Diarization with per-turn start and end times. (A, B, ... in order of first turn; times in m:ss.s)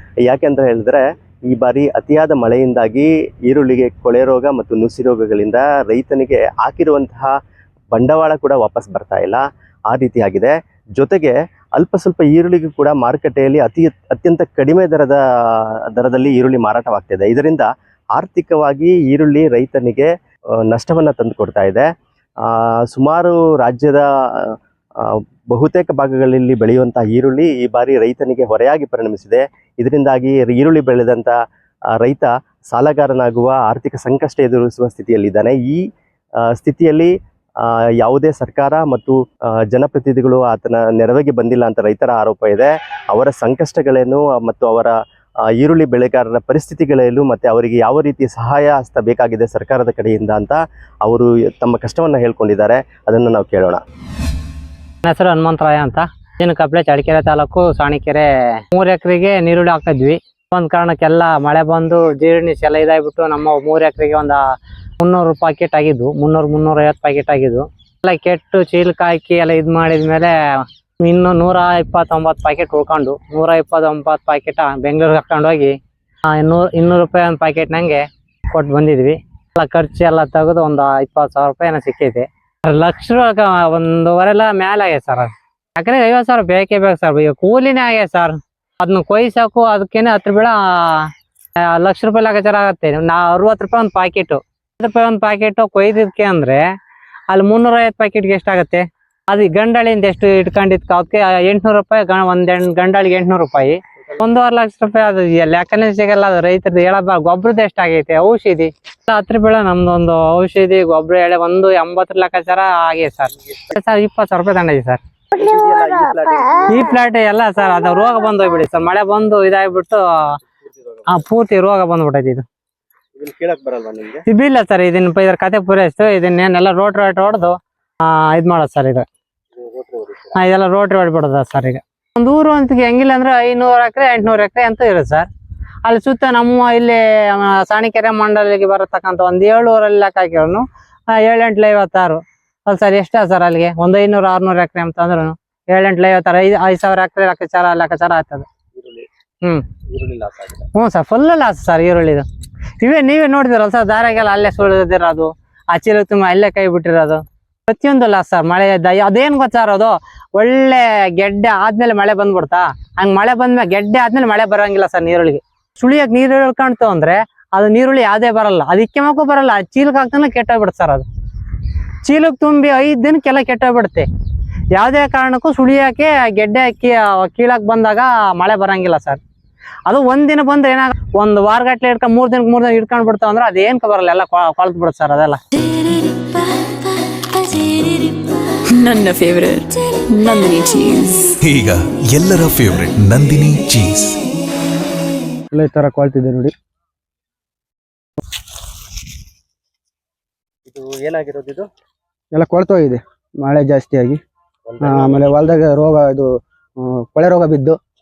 0:00.2-0:07.3 A
0:07.9-0:20.1 A
0:20.7-0:21.8 A
0:22.4-0:31.3 A
0:31.9-0:35.8 A
0:36.5-0:37.1 A
0:37.6-0:39.2 A
0:39.7-0:44.9 A
0:45.6-0:53.8 A
0:55.0-1:04.4 B
1:05.0-1:15.7 B
1:16.3-1:31.1 B
1:31.7-1:36.6 B
1:37.3-1:55.0 B
1:55.3-1:56.8 A
1:56.7-2:00.0 B
2:01.1-2:02.4 B
2:03.2-2:04.2 A
2:04.3-2:09.0 B
2:09.6-2:10.4 A
2:10.3-2:15.3 B
2:15.8-2:28.4 B
2:28.7-2:29.0 A
2:29.9-2:30.6 A
2:30.7-2:32.2 B
2:32.8-2:51.0 B
2:52.0-2:54.1 B
2:54.7-2:59.2 B
2:59.9-3:05.4 B
3:08.7-3:11.3 C
3:11.3-3:14.2 D
3:15.5-3:16.5 E
3:20.6-3:21.7 A
3:22.3-3:24.2 E
3:24.7-3:25.5 A
3:24.8-3:26.3 E
3:26.8-3:27.8 E